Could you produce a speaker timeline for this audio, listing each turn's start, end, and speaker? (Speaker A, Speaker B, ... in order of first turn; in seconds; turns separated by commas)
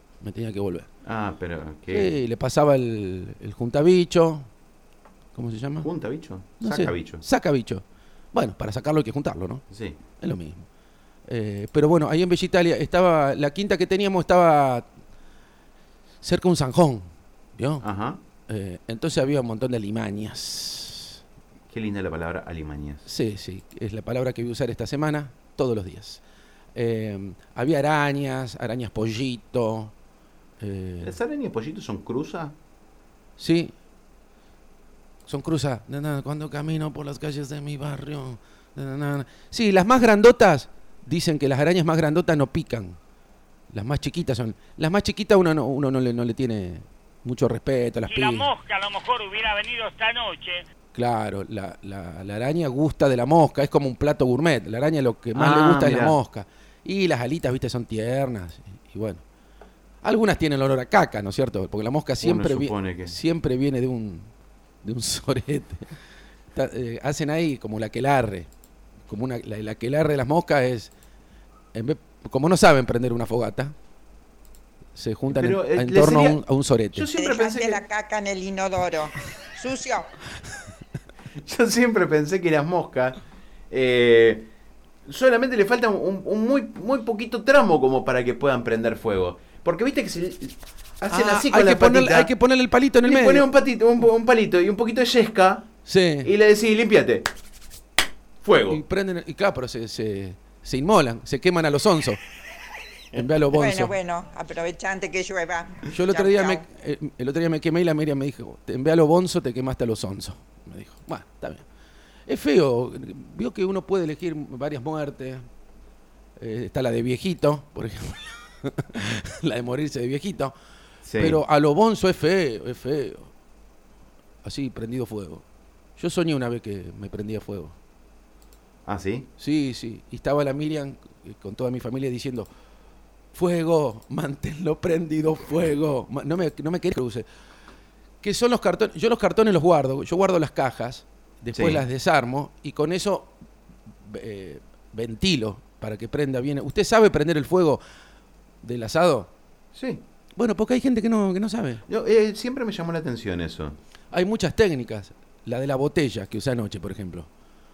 Speaker A: 0.2-0.9, Speaker B: 1.0-2.2, Speaker A: 1.9-4.5, Speaker A: 5.3-5.9, Speaker B: 5.8-7.2, Speaker A: 6.6-9.6, Speaker B: 9.7-10.0, Speaker A: 10.2-10.6, Speaker A: 11.3-14.9, Speaker A: 16.2-17.8, Speaker B: 17.8-18.2, Speaker A: 18.5-21.2, Speaker B: 21.7-23.0, Speaker A: 23.1-26.2, Speaker A: 26.7-29.9, Speaker A: 30.6-31.1, Speaker B: 31.0-32.5, Speaker A: 33.4-33.7, Speaker A: 35.3-43.0, Speaker A: 43.7-48.5, Speaker C: 48.1-50.6, Speaker A: 50.9-59.2, Speaker B: 55.3-56.1, Speaker A: 60.0-64.3, Speaker B: 62.2-63.1, Speaker A: 64.8-65.9, Speaker A: 66.5-68.5, Speaker A: 69.1-70.9, Speaker A: 71.7-73.7, Speaker A: 75.0-77.1, Speaker B: 75.3-77.8, Speaker D: 77.1-80.1, Speaker B: 81.3-83.2, Speaker B: 83.7-84.5, Speaker B: 85.0-92.3, Speaker A: 91.1-93.5, Speaker B: 93.0-95.7, Speaker A: 95.8-96.3, Speaker B: 96.2-97.3, Speaker B: 98.4-98.8, Speaker A: 98.7-102.2, Speaker A: 103.1-103.9, Speaker D: 103.5-106.6, Speaker A: 105.9-111.6, Speaker A: 112.3-115.5, Speaker A: 116.4-120.5, Speaker B: 121.0-121.4, Speaker A: 121.2-123.3, Speaker A: 124.4-125.4, Speaker A: 126.0-127.7, Speaker B: 128.8-129.3, Speaker A: 129.4-132.5, Speaker A: 133.3-137.2, Speaker A: 138.2-143.3, Speaker B: 141.5-141.8, Speaker A: 144.1-147.8, Speaker A: 148.6-149.3, Speaker B: 149.7-150.0, Speaker A: 150.3-151.8, Speaker B: 151.9-153.8, Speaker A: 154.1-157.3